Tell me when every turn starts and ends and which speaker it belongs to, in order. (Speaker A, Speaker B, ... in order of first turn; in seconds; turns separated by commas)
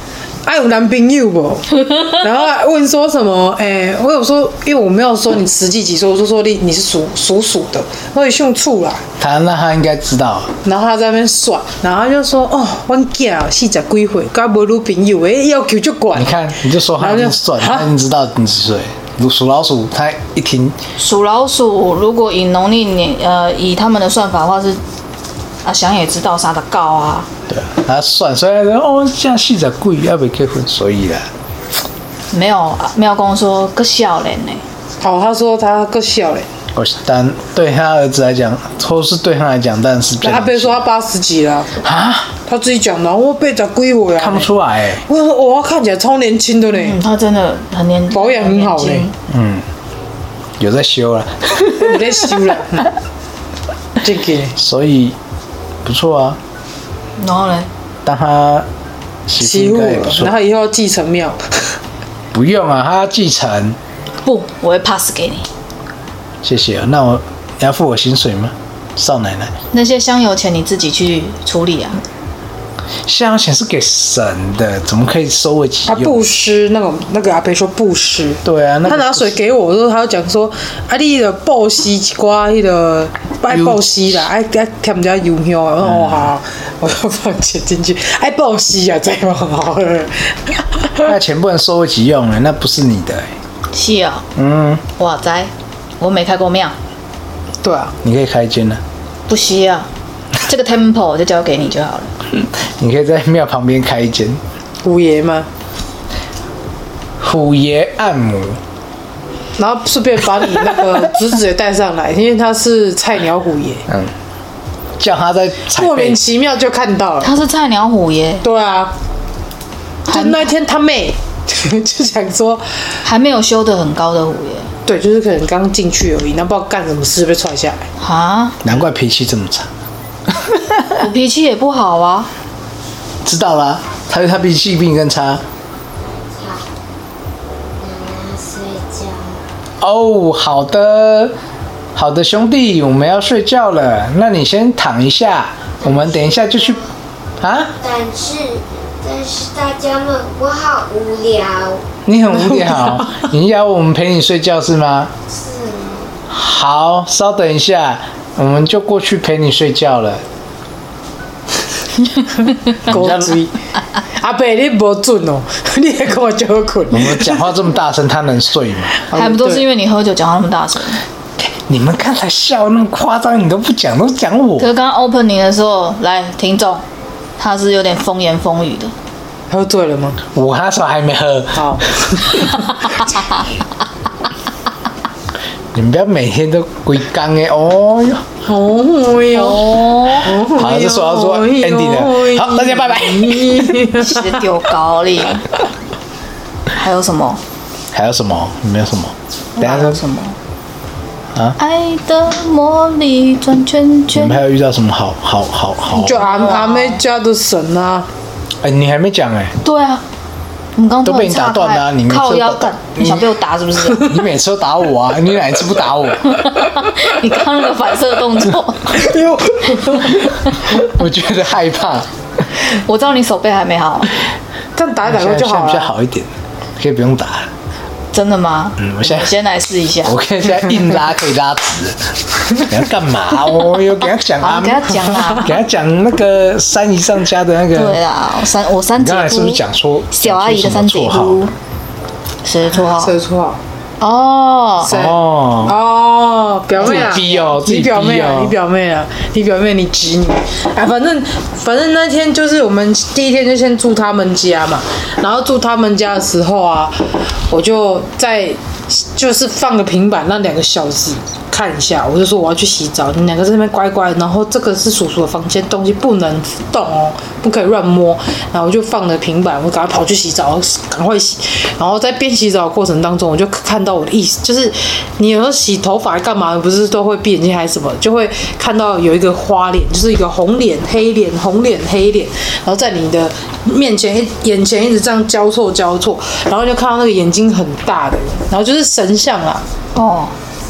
Speaker A: 0.4-9.0, Speaker B: 9.2-10.5, Speaker A: 10.6-16.4, Speaker B: 16.1-20.8, Speaker A: 17.0-17.9, Speaker C: 21.0-24.8, Speaker C: 25.6-27.3, Speaker B: 27.5-31.3, Speaker C: 32.3-34.6, Speaker A: 35.0-36.5, Speaker B: 36.7-40.8, Speaker A: 40.2-41.7, Speaker B: 41.8-42.3, Speaker A: 42.5-44.5, Speaker B: 44.2-45.0, Speaker A: 45.0-47.0, Speaker C: 46.8-49.1, Speaker A: 48.1-49.1, Speaker B: 49.3-49.6, Speaker B: 50.6-52.1, Speaker A: 51.8-52.9, Speaker A: 54.0-54.5, Speaker B: 54.5-55.1, Speaker B: 55.8-56.4, Speaker C: 57.2-57.7, Speaker B: 58.0-58.7, Speaker B: 59.3-60.3, Speaker A: 59.4-61.8, Speaker B: 62.3-63.8, Speaker C: 64.2-65.5, Speaker B: 66.4-69.5, Speaker C: 69.7-72.0, Speaker B: 73.0-76.2, Speaker A: 75.9-91.1, Speaker B: 78.4-79.4, Speaker B: 83.5-83.8, Speaker B: 85.8-86.3, Speaker B: 91.0-93.3, Speaker C: 93.7-94.2, Speaker B: 94.3-94.8, Speaker C: 95.0-96.7, Speaker A: 97.6-97.9, Speaker B: 98.0-98.8, Speaker C: 99.3-99.9, Speaker C: 100.4-102.1, Speaker B: 102.4-104.4, Speaker A: 104.8-105.5, Speaker B: 107.2-108.6, Speaker A: 109.6-113.8, Speaker B: 115.0-116.2, Speaker A: 115.7-117.3, Speaker C: 117.2-118.4, Speaker A: 118.4-118.9, Speaker A: 120.1-122.6, Speaker C: 120.1-120.5, Speaker C: 123.0-124.7, Speaker A: 124.8-127.8, Speaker C: 128.0-128.6, Speaker B: 128.6-129.7, Speaker B: 130.4-130.8, Speaker C: 130.9-132.3, Speaker B: 133.2-135.4, Speaker D: 136.0-136.7, Speaker D: 137.8-139.4, Speaker B: 139.8-141.3, Speaker B: 141.9-146.8, Speaker D: 145.8-146.9, Speaker B: 147.4-147.7, Speaker D: 147.8-151.8, Speaker B: 152.1-155.1, Speaker A: 152.3-153.3, Speaker D: 155.3-156.1, Speaker B: 156.3-160.2, Speaker A: 162.8-163.5, Speaker B: 162.8-163.4, Speaker A: 164.1-167.4, Speaker B: 166.9-169.0, Speaker A: 169.1-169.6, Speaker C: 169.1-171.0, Speaker B: 171.4-174.7, Speaker C: 174.6-176.8, Speaker C: 177.4-178.9, Speaker A: 179.5-180.2, Speaker B: 180.3-181.8, Speaker A: 181.5-182.5, Speaker B: 185.7-188.2, Speaker A: 188.4-194.4, Speaker C: 189.3-190.3, Speaker B: 190.5-193.9, Speaker C: 194.0-195.5, Speaker C: 196.7-197.4, Speaker B: 197.9-200.0, Speaker C: 199.6-200.3, Speaker C: 201.6-204.4, Speaker B: 204.1-206.2, Speaker A: 205.9-208.1, Speaker C: 206.1-207.0, Speaker B: 208.6-209.5, Speaker C: 209.6-210.0, Speaker C: 210.8-214.1, Speaker B: 211.0-213.2, Speaker B: 213.9-216.4, Speaker C: 216.3-219.1, Speaker A: 218.9-220.3, Speaker B: 220.8-222.1, Speaker C: 222.6-224.1, Speaker A: 224.8-225.9, Speaker B: 225.0-227.5, Speaker C: 228.1-230.2, Speaker B: 228.8-229.3, Speaker B: 230.0-238.0, Speaker C: 234.4-235.6, Speaker C: 237.7-241.5, Speaker B: 239.0-241.4, Speaker C: 242.4-243.1, Speaker A: 242.8-243.6, Speaker C: 244.0-244.9, Speaker B: 244.8-245.8, Speaker A: 244.8-257.0, Speaker B: 246.8-248.6, Speaker A: 257.5-289.6, Speaker C: 289.9-290.3